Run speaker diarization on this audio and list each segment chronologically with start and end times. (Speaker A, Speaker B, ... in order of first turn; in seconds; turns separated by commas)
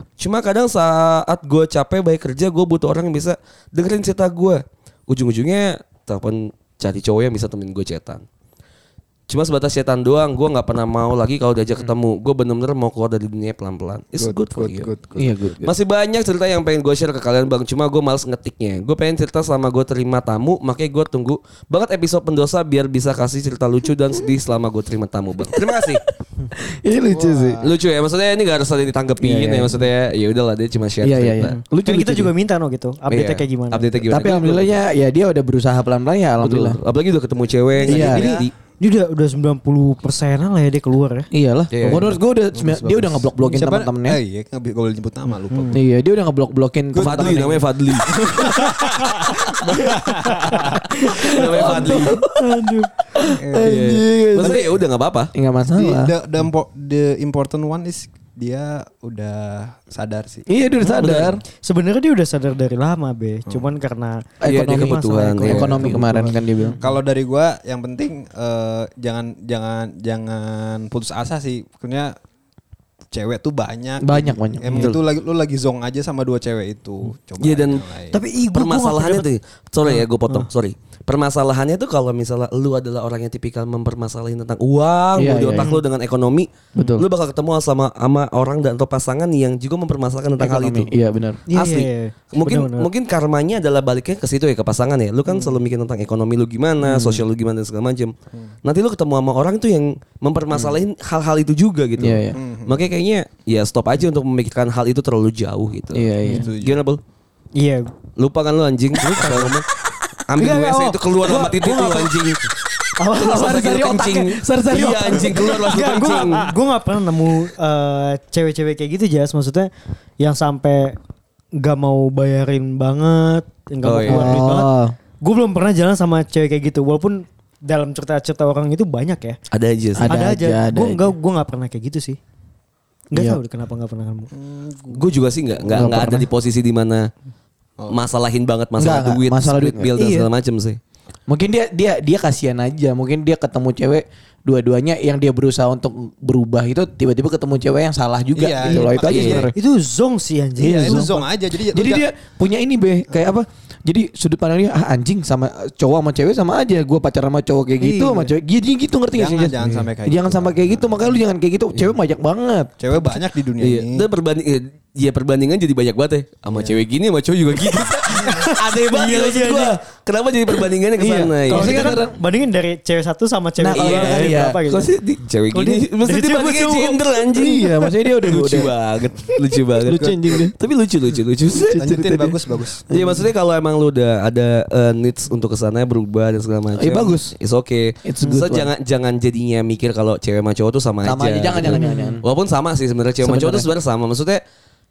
Speaker A: 0.2-8.2, Speaker A: 9.3-15.0, Speaker B: 14.2-15.2, Speaker C: 15.2-15.7, Speaker A: 15.6-26.0, Speaker C: 25.6-25.9, Speaker C: 26.6-27.6, Speaker B: 27.1-27.8, Speaker A: 27.6-31.6, Speaker C: 29.2-29.8, Speaker C: 31.0-32.3, Speaker D: 31.4-33.8, Speaker A: 33.1-34.7, Speaker C: 34.1-36.8, Speaker A: 36.4-38.5, Speaker C: 37.9-38.2, Speaker D: 37.9-41.3, Speaker B: 38.0-38.4, Speaker C: 41.3-44.2, Speaker A: 41.7-42.1, Speaker B: 42.5-45.8, Speaker C: 45.7-47.6, Speaker B: 46.9-50.8, Speaker A: 47.0-48.1, Speaker D: 48.5-48.8, Speaker C: 49.7-50.0, Speaker D: 50.1-52.9, Speaker C: 51.0-52.3, Speaker A: 51.2-52.2, Speaker C: 53.2-54.6, Speaker B: 53.3-53.8, Speaker A: 53.6-55.3, Speaker B: 54.4-54.6, Speaker C: 55.3-56.1, Speaker B: 55.7-60.5, Speaker C: 60.5-61.4, Speaker A: 61.0-61.4, Speaker D: 61.6-66.8, Speaker C: 64.4-66.8, Speaker A: 64.5-66.1, Speaker B: 65.8-72.1, Speaker B: 73.1-78.2, Speaker C: 74.0-74.9, Speaker A: 77.4-77.8, Speaker D: 78.1-79.2, Speaker A: 78.5-90.9, Speaker D: 79.9-80.5, Speaker C: 85.2-85.7, Speaker C: 86.8-87.1, Speaker C: 90.4-91.4, Speaker D: 91.5-92.9, Speaker A: 91.5-98.1, Speaker C: 96.8-97.2, Speaker A: 98.6-107.0, Speaker C: 102.0-102.4, Speaker B: 102.3-102.8, Speaker C: 105.9-106.5, Speaker B: 106.2-106.8, Speaker D: 107.5-107.9, Speaker A: 108.2-109.7, Speaker D: 109.0-109.5, Speaker A: 110.3-112.4, Speaker D: 110.4-112.1, Speaker D: 113.0-119.7, Speaker A: 113.1-116.5, Speaker C: 113.2-115.5, Speaker D: 120.2-121.0, Speaker D: 121.6-129.4, Speaker A: 123.8-124.3, Speaker C: 124.0-124.9, Speaker A: 129.5-130.1, Speaker D: 130.0-132.2, Speaker C: 130.0-131.0, Speaker D: 133.1-134.3, Speaker C: 133.1-133.4, Speaker B: 134.3-135.6, Speaker A: 134.9-137.1, Speaker C: 135.7-136.3, Speaker A: 137.9-140.8, Speaker C: 138.8-139.9, Speaker D: 139.9-140.3, Speaker C: 141.3-149.5, Speaker B: 148.3-149.5, Speaker A: 149.0-149.5, Speaker D: 149.5-151.2, Speaker B: 150.6-152.1, Speaker C: 150.6-151.1, Speaker C: 151.7-162.7, Speaker B: 157.8-158.3, Speaker B: 159.1-161.2, Speaker B: 162.8-164.1, Speaker A: 163.6-172.0, Speaker B: 166.5-166.8, Speaker D: 168.1-169.8, Speaker C: 171.0-172.2, Speaker D: 171.5-174.9, Speaker C: 173.6-175.1, Speaker A: 173.8-174.4, Speaker A: 175.1-182.1, Speaker D: 175.5-177.2, Speaker C: 177.3-178.7, Speaker C: 179.7-180.5, Speaker C: 181.5-182.3, Speaker B: 181.7-182.8, Speaker A: 182.9-194.4, Speaker C: 186.8-187.3, Speaker C: 188.0-188.7, Speaker C: 191.0-192.2, Speaker D: 191.8-192.1, Speaker C: 193.2-193.7